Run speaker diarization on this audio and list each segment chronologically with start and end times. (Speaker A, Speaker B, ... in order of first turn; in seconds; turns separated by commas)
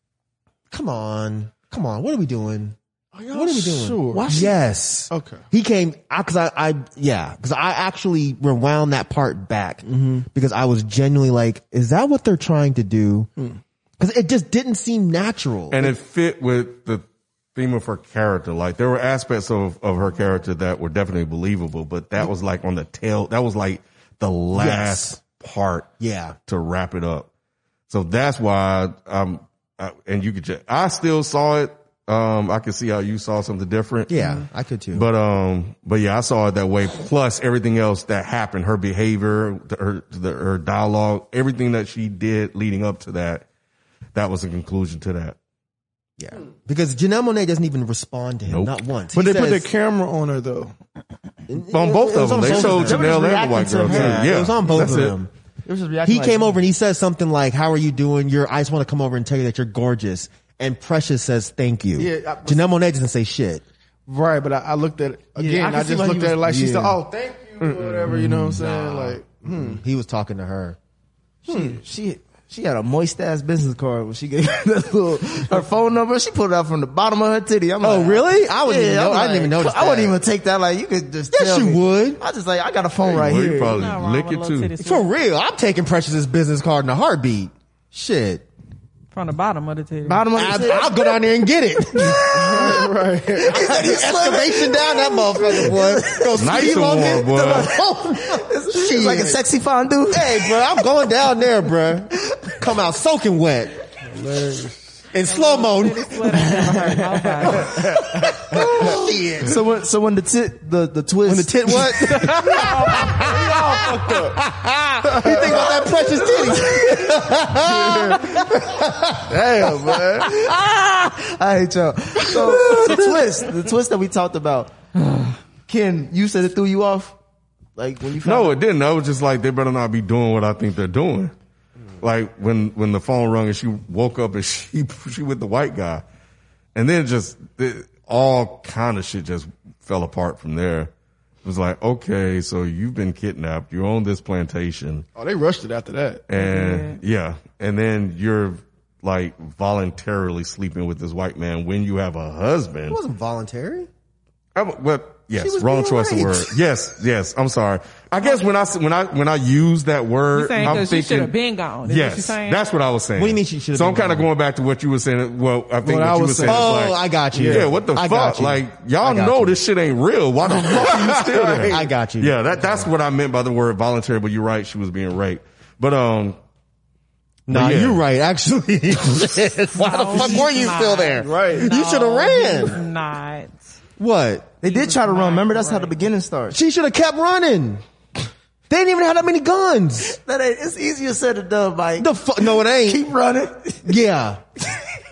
Speaker A: 0.7-2.8, Speaker B: 3.1-4.4, Speaker A: 3.3-13.3, Speaker C: 4.1-4.5, Speaker B: 5.1-5.4, Speaker B: 9.8-10.2, Speaker A: 14.0-15.9, Speaker D: 15.7-25.9, Speaker A: 24.5-25.2, Speaker A: 26.0-26.4, Speaker D: 26.5-27.3, Speaker D: 27.9-43.5, Speaker A: 34.1-35.1, Speaker D: 44.1-45.4, Speaker A: 46.2-49.7, Speaker B: 49.1-50.7, Speaker A: 51.5-53.3, Speaker D: 51.7-55.1, Speaker C: 52.4-54.9, Speaker A: 53.8-55.3, Speaker C: 55.6-56.6, Speaker A: 56.0-63.6, Speaker B: 62.0-62.6, Speaker B: 64.1-69.8, Speaker C: 65.4-67.0, Speaker A: 68.0-70.8, Speaker C: 68.1-68.5, Speaker C: 71.5-83.9, Speaker B: 71.5-71.8, Speaker A: 77.8-80.2, Speaker A: 81.3-82.2, Speaker D: 83.0-84.7, Speaker E: 83.7-85.1, Speaker A: 84.8-88.4, Speaker E: 89.1-90.3, Speaker C: 90.0-91.2, Speaker A: 90.3-92.9, Speaker C: 92.1-92.8, Speaker B: 92.2-93.9, Speaker C: 93.4-100.6, Speaker A: 93.4-99.4, Speaker D: 96.3-97.7, Speaker A: 100.1-103.7, Speaker B: 104.0-104.8, Speaker A: 105.1-106.5, Speaker E: 105.2-107.9, Speaker B: 107.4-109.0, Speaker A: 107.6-109.6, Speaker C: 108.8-111.9, Speaker A: 111.3-119.9, Speaker B: 111.8-114.4, Speaker E: 112.2-113.9, Speaker B: 115.0-120.3, Speaker C: 120.2-127.2, Speaker B: 122.3-123.0, Speaker C: 127.8-128.6, Speaker D: 128.2-131.3, Speaker D: 132.0-136.0, Speaker D: 136.7-140.9, Speaker D: 141.4-145.1, Speaker B: 145.2-146.2, Speaker D: 146.3-153.0, Speaker E: 146.3-147.0, Speaker A: 152.9-153.9, Speaker D: 154.6-161.3, Speaker A: 155.4-156.6, Speaker E: 160.3-162.6, Speaker D: 161.8-176.4, Speaker A: 163.2-164.3, Speaker B: 165.8-166.7, Speaker A: 166.4-169.6, Speaker B: 167.3-167.7, Speaker B: 170.7-171.8, Speaker A: 170.8-172.9, Speaker A: 177.5-182.8, Speaker D: 177.5-178.0, Speaker E: 179.8-183.7, Speaker B: 181.2-181.7, Speaker A: 184.0-184.5, Speaker C: 184.6-186.6, Speaker E: 184.6-186.0, Speaker A: 186.5-187.8, Speaker A: 188.7-190.1, Speaker C: 190.0-193.9, Speaker A: 192.0-193.0, Speaker A: 193.8-194.4